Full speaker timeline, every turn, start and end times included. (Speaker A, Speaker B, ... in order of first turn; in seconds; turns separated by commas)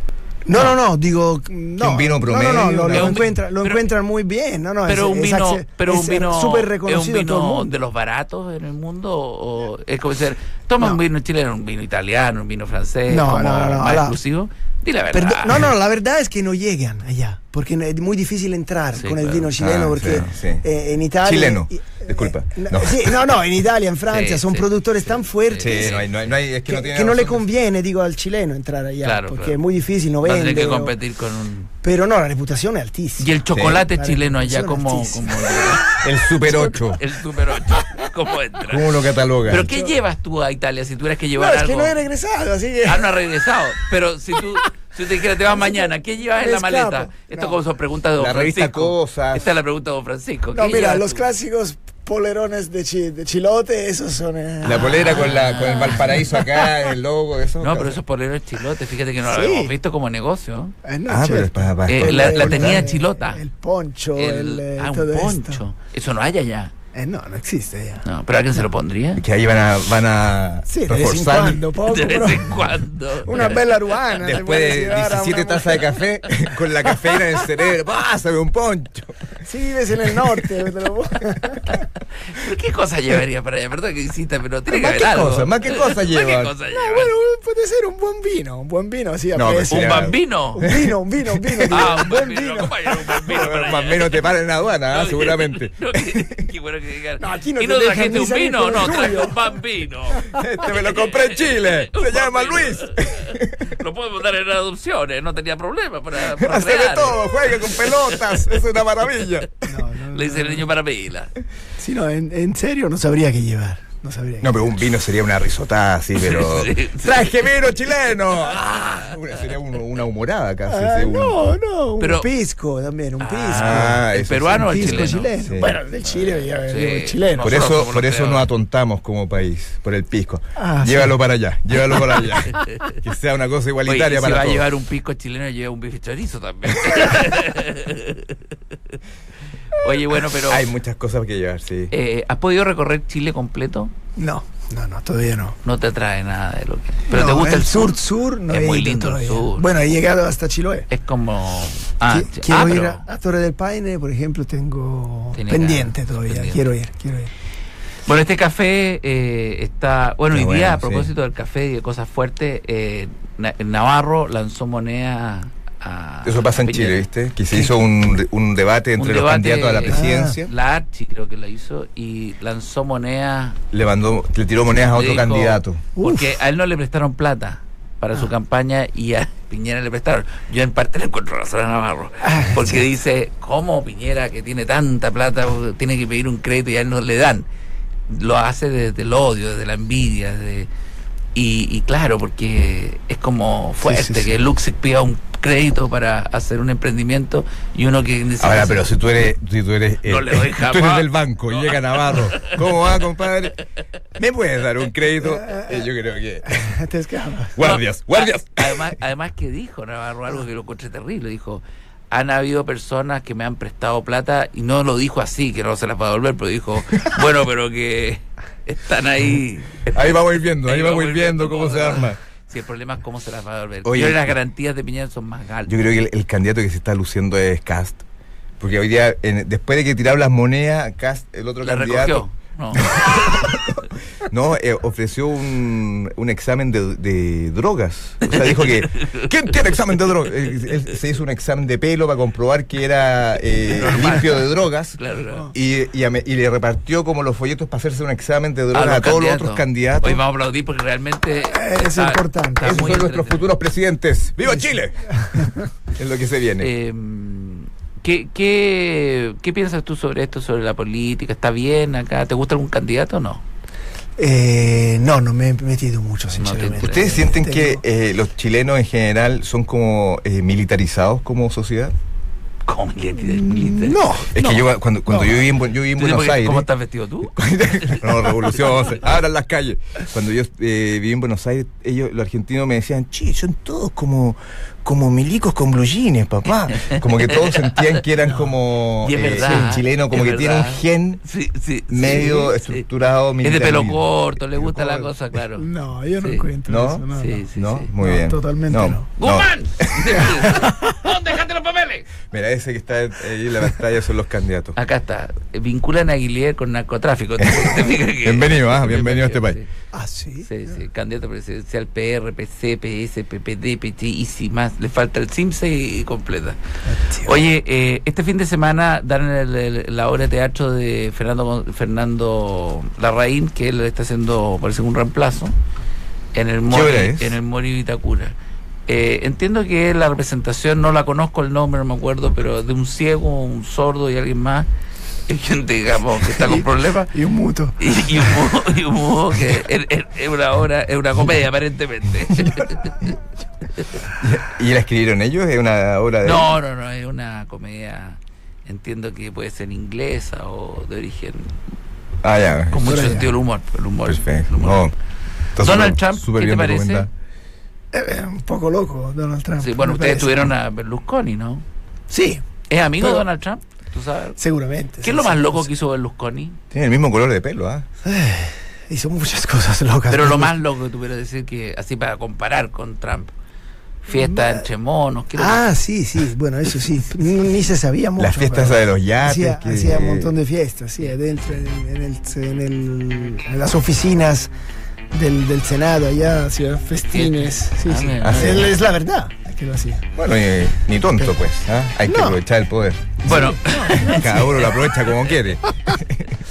Speaker A: 0.5-7.7, Speaker B: 1.8-3.3, Speaker C: 2.9-3.9, Speaker C: 4.8-15.7, Speaker A: 13.1-14.2, Speaker A: 15.1-26.0, Speaker C: 18.9-19.5, Speaker B: 19.5-20.6, Speaker C: 20.1-20.3, Speaker B: 21.2-23.2, Speaker C: 24.1-26.1, Speaker B: 25.6-27.4, Speaker A: 26.7-30.9, Speaker C: 29.0-29.6, Speaker C: 30.2-31.7, Speaker A: 31.8-37.0, Speaker C: 33.2-36.0, Speaker B: 33.5-33.8, Speaker B: 36.0-37.0, Speaker C: 37.0-38.9, Speaker B: 38.7-39.7, Speaker C: 39.5-42.0, Speaker A: 39.5-39.9, Speaker A: 41.4-43.1, Speaker C: 42.8-51.2, Speaker A: 45.5-47.6, Speaker B: 48.2-49.5, Speaker A: 50.5-56.4, Speaker B: 54.6-58.0, Speaker C: 54.7-56.3, Speaker C: 57.6-60.7, Speaker A: 59.2-59.7, Speaker A: 60.8-65.6, Speaker B: 61.1-62.9, Speaker C: 61.9-63.4, Speaker C: 64.2-66.7, Speaker A: 66.9-68.0, Speaker C: 68.0-69.2, Speaker B: 69.2-71.6, Speaker A: 70.7-72.7, Speaker C: 71.8-73.7, Speaker A: 73.2-76.0, Speaker B: 74.2-79.3, Speaker A: 79.4-81.8, Speaker B: 80.1-80.4, Speaker C: 82.3-87.1, Speaker B: 84.7-86.5, Speaker A: 86.7-93.1, Speaker B: 89.3-91.7, Speaker C: 89.7-90.7, Speaker C: 91.7-94.2, Speaker B: 93.3-96.4, Speaker C: 94.9-108.5, Speaker A: 97.2-99.4, Speaker B: 100.3-103.7, Speaker B: 106.2-109.5, Speaker A: 109.7-110.7, Speaker C: 110.1-111.3, Speaker A: 111.8-114.6, Speaker B: 114.4-121.4, Speaker C: 116.2-117.2, Speaker A: 120.7-127.6, Speaker C: 122.0-122.3, Speaker C: 123.2-125.3, Speaker B: 123.5-125.8, Speaker C: 126.1-128.5, Speaker B: 127.4-134.7, Speaker A: 130.6-131.2, Speaker C: 132.5-133.0, Speaker C: 133.8-138.4, Speaker C: 139.7-140.7, Speaker B: 140.4-141.9, Speaker C: 141.9-143.9, Speaker A: 144.2-145.6, Speaker C: 145.6-149.7, Speaker A: 147.1-150.9, Speaker C: 150.9-153.0, Speaker A: 152.1-157.3, Speaker C: 155.3-156.7, Speaker C: 158.1-167.0, Speaker B: 160.3-161.1, Speaker B: 166.2-170.5, Speaker C: 169.0-173.6, Speaker A: 169.9-170.4, Speaker B: 173.7-175.8, Speaker C: 174.8-187.5, Speaker A: 175.9-176.3, Speaker A: 182.2-182.8, Speaker C: 188.1-190.7, Speaker C: 191.3-198.9, Speaker A: 193.8-194.3, Speaker B: 198.4-203.6, Speaker C: 200.0-202.6, Speaker B: 204.2-206.7, Speaker A: 205.2-205.9, Speaker A: 206.5-207.6, Speaker B: 207.6-208.9, Speaker C: 207.6-225.7, Speaker B: 219.9-222.2, Speaker B: 223.8-224.3, Speaker B: 225.7-228.0, Speaker B: 228.6-232.2, Speaker C: 231.6-233.4, Speaker B: 232.7-245.0, Speaker C: 238.2-239.3, Speaker C: 243.7-244.4, Speaker C: 245.0-245.5, Speaker B: 245.5-250.2, Speaker C: 248.7-253.5, Speaker A: 251.4-253.0, Speaker B: 252.6-256.7, Speaker A: 255.2-255.5, Speaker C: 256.6-263.4, Speaker A: 264.2-267.8, Speaker C: 266.4-267.2, Speaker B: 266.8-271.9, Speaker C: 272.7-274.5, Speaker A: 273.2-275.4, Speaker B: 274.3-276.7, Speaker C: 275.9-278.8, Speaker B: 277.2-291.2, Speaker C: 286.8-288.0, Speaker A: 288.2-288.5, Speaker C: 289.0-292.8, Speaker A: 289.2-289.6, Speaker B: 291.9-295.1, Speaker C: 293.4-295.7, Speaker A: 295.6-299.1, Speaker C: 296.2-296.5, Speaker B: 296.7-300.5, Speaker C: 297.1-297.9, Speaker C: 299.2-302.1, Speaker A: 300.1-301.0, Speaker B: 302.3-304.8, Speaker C: 304.8-309.7, Speaker B: 307.4-309.6, Speaker A: 309.9-310.8, Speaker C: 310.4-316.6, Speaker A: 316.9-317.4, Speaker C: 317.2-325.5, Speaker C: 326.3-328.3, Speaker B: 326.7-327.4, Speaker C: 328.9-334.7, Speaker C: 335.3-337.1, Speaker A: 336.3-338.5, Speaker C: 337.8-343.1, Speaker B: 344.1-346.5, Speaker C: 346.2-351.6, Speaker B: 352.2-353.1, Speaker C: 352.7-354.8, Speaker A: 352.8-353.3, Speaker B: 354.1-354.9, Speaker B: 355.6-357.1, Speaker C: 355.6-357.1, Speaker A: 357.9-360.5, Speaker C: 359.6-361.6, Speaker A: 362.1-362.4, Speaker C: 362.7-364.4, Speaker A: 363.0-363.2, Speaker A: 364.4-365.7, Speaker C: 365.0-366.6, Speaker B: 366.7-367.9, Speaker A: 368.0-370.5, Speaker C: 370.1-373.3, Speaker C: 374.0-375.6, Speaker A: 374.1-374.6, Speaker A: 375.3-384.5, Speaker B: 378.2-380.3, Speaker A: 385.1-390.1, Speaker C: 387.1-388.7, Speaker B: 388.2-388.7, Speaker B: 390.2-393.2, Speaker A: 392.1-392.4, Speaker A: 393.2-394.9, Speaker C: 393.2-394.7, Speaker B: 393.9-396.3